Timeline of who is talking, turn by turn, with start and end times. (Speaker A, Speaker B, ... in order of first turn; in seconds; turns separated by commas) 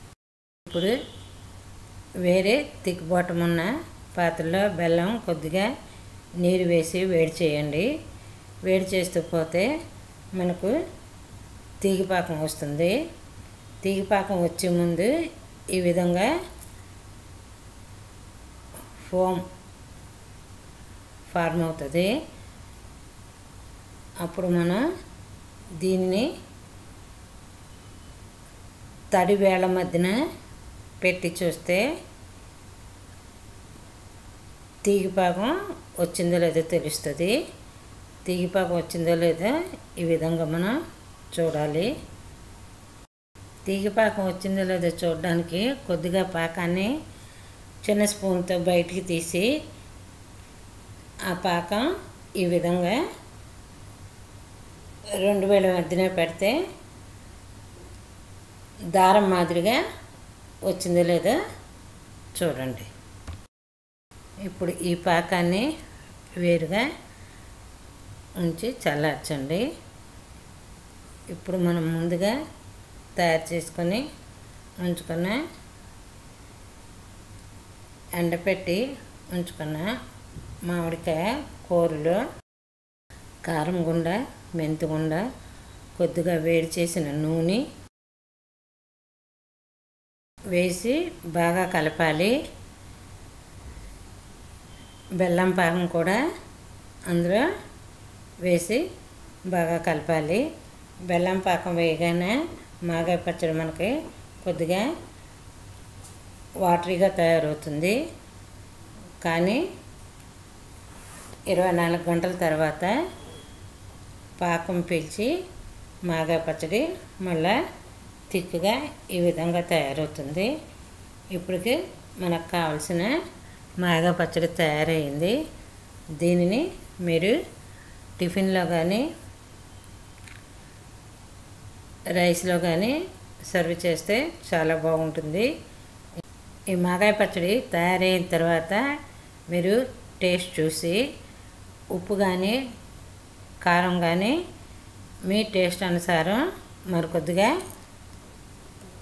Speaker A: 0.7-0.9, Speaker A: 2.2-5.7, Speaker A: 6.4-7.9, Speaker A: 8.7-9.7, Speaker A: 10.3-10.7, Speaker A: 11.8-12.9, Speaker A: 13.8-15.1, Speaker A: 15.7-16.3, Speaker A: 19.0-19.4, Speaker A: 21.3-22.1, Speaker A: 24.2-24.8, Speaker A: 25.8-26.3, Speaker A: 29.1-30.1, Speaker A: 31.0-31.9, Speaker A: 34.8-37.4, Speaker A: 38.2-40.8, Speaker A: 41.3-41.9, Speaker A: 43.6-46.9, Speaker A: 47.8-49.5, Speaker A: 51.3-53.0, Speaker A: 55.2-56.6, Speaker A: 58.9-59.8, Speaker A: 60.6-61.4, Speaker A: 62.4-62.9, Speaker A: 64.4-65.7, Speaker A: 66.4-66.8, Speaker A: 68.4-69.6, Speaker A: 71.3-72.4, Speaker A: 73.2-74.0, Speaker A: 74.8-75.4, Speaker A: 78.2-79.9, Speaker A: 80.7-82.2, Speaker A: 83.4-85.2, Speaker A: 86.0-87.6, Speaker A: 90.5-92.3, Speaker A: 95.2-96.2, Speaker A: 97.1-97.5, Speaker A: 98.4-98.8, Speaker A: 99.5-100.4, Speaker A: 101.1-104.9, Speaker A: 106.6-108.0, Speaker A: 109.2-109.6, Speaker A: 111.5-113.0, Speaker A: 114.4-115.3, Speaker A: 116.1-117.5, Speaker A: 118.3-120.5, Speaker A: 121.3-123.1, Speaker A: 123.8-125.3, Speaker A: 126.2-127.3, Speaker A: 128.2-129.1, Speaker A: 132.1-132.9, Speaker A: 133.5-135.5, Speaker A: 136.7-138.8, Speaker A: 139.5-141.0, Speaker A: 141.9-142.6, Speaker A: 143.6-144.4, Speaker A: 145.3-147.6